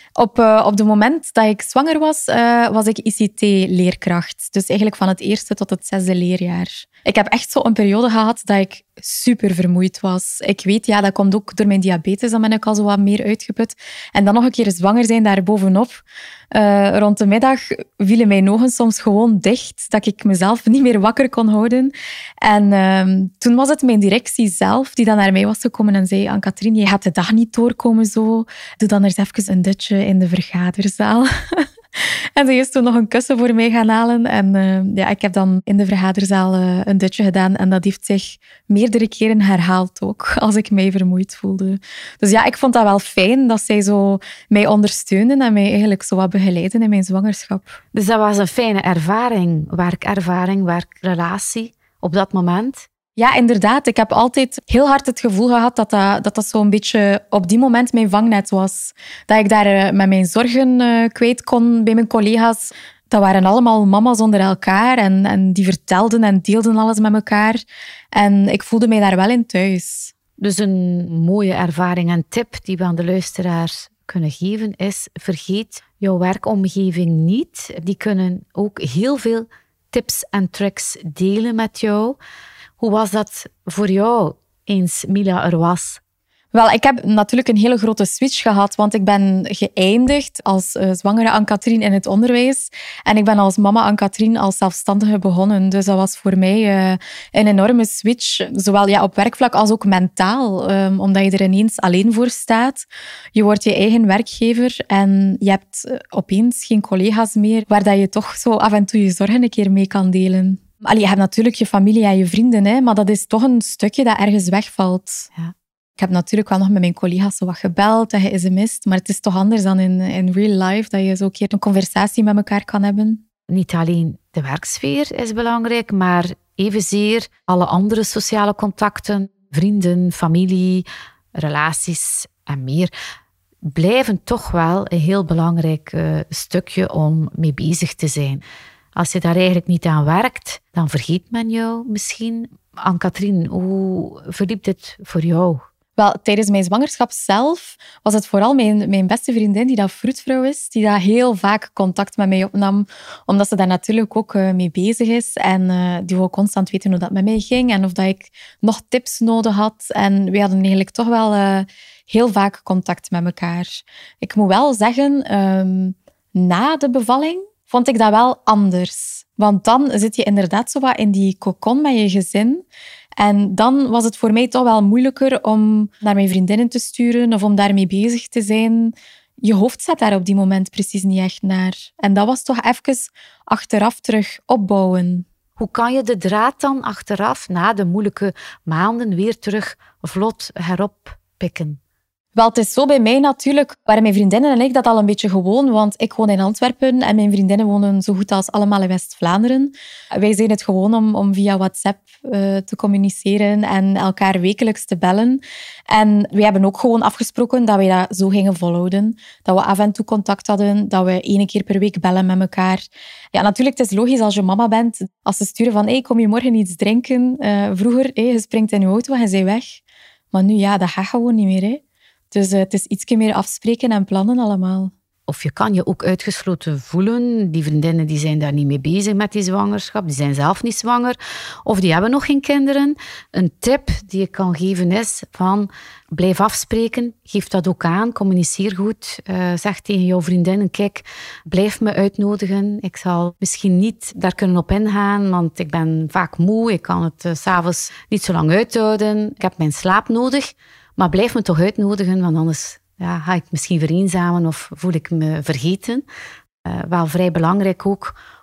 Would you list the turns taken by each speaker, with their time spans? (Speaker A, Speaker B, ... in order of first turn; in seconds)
Speaker A: 0.2-47.8, 53.2-70.1, 86.5-115.3, 116.0-123.2, 146.0-172.7, 173.2-185.2, 192.3-224.9
Speaker B: 47.9-52.9, 70.4-82.2, 82.8-86.0, 123.5-132.9, 133.7-138.4, 138.9-145.6, 185.6-191.8, 225.3-256.0, 256.6-258.2